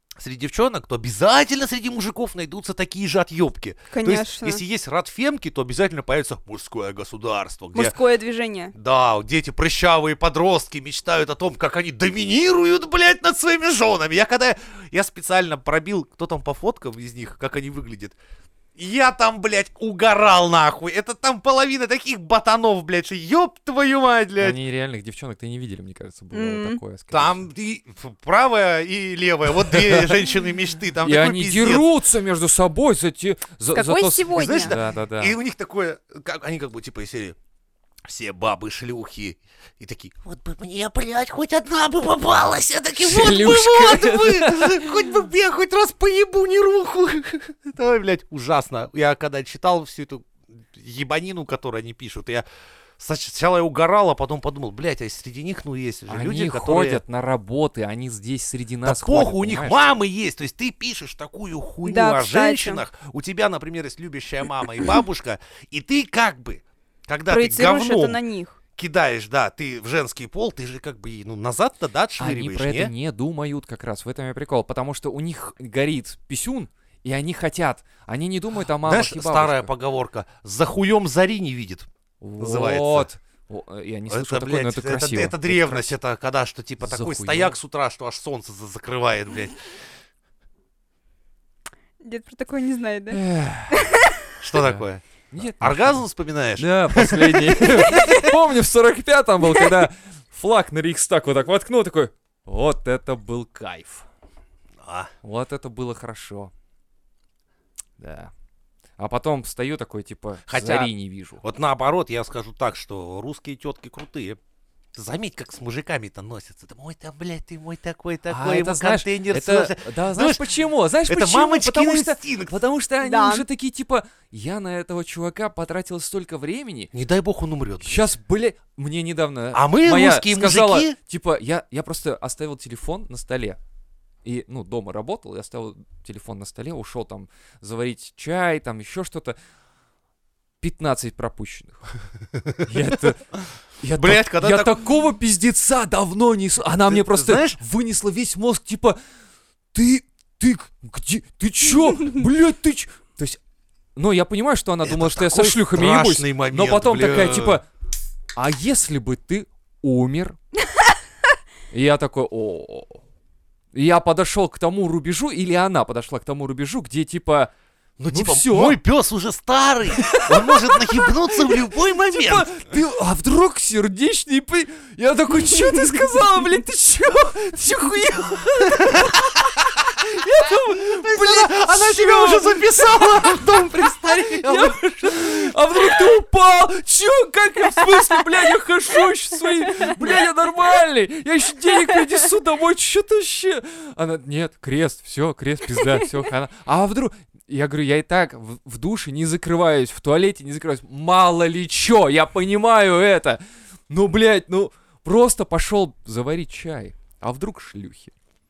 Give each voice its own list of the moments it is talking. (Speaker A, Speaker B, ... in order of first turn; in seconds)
Speaker A: 0.2-8.0, 8.7-18.2, 18.8-24.6, 27.1-31.9, 34.3-37.4, 38.0-52.5, 53.0-57.0, 58.8-68.2, 68.8-72.9, 78.8-83.1, 84.1-89.6, 94.4-98.0, 104.8-105.1, 110.5-114.4, 115.0-120.5, 121.1-122.6, 126.9-128.1, 129.5-131.0, 142.3-142.7, 143.9-144.8, 146.8-147.6, 154.8-157.6, 168.0-172.5, 180.8-185.5
Speaker B: 3.9-4.6, 7.7-8.7, 26.3-26.8, 33.7-34.8, 61.9-62.8, 67.3-68.6, 92.0-93.2, 93.7-94.1, 97.9-98.3, 123.0-123.5
Speaker C: 24.4-27.4, 29.7-30.2, 31.0-35.4, 43.0-45.1, 56.1-59.9, 72.2-79.7, 82.2-86.0, 86.8-87.6, 93.1-93.9, 94.5-96.1, 96.6-104.1, 105.2-106.5, 108.0-108.3, 109.0-111.4, 118.3-126.9, 127.8-133.6, 134.2-139.4, 140.6-141.8, 142.7-149.0, 149.7-153.4, 154.0-157.7, 158.3-160.4, 161.7-163.0, 163.7-167.5, 168.1-168.8, 170.0-208.1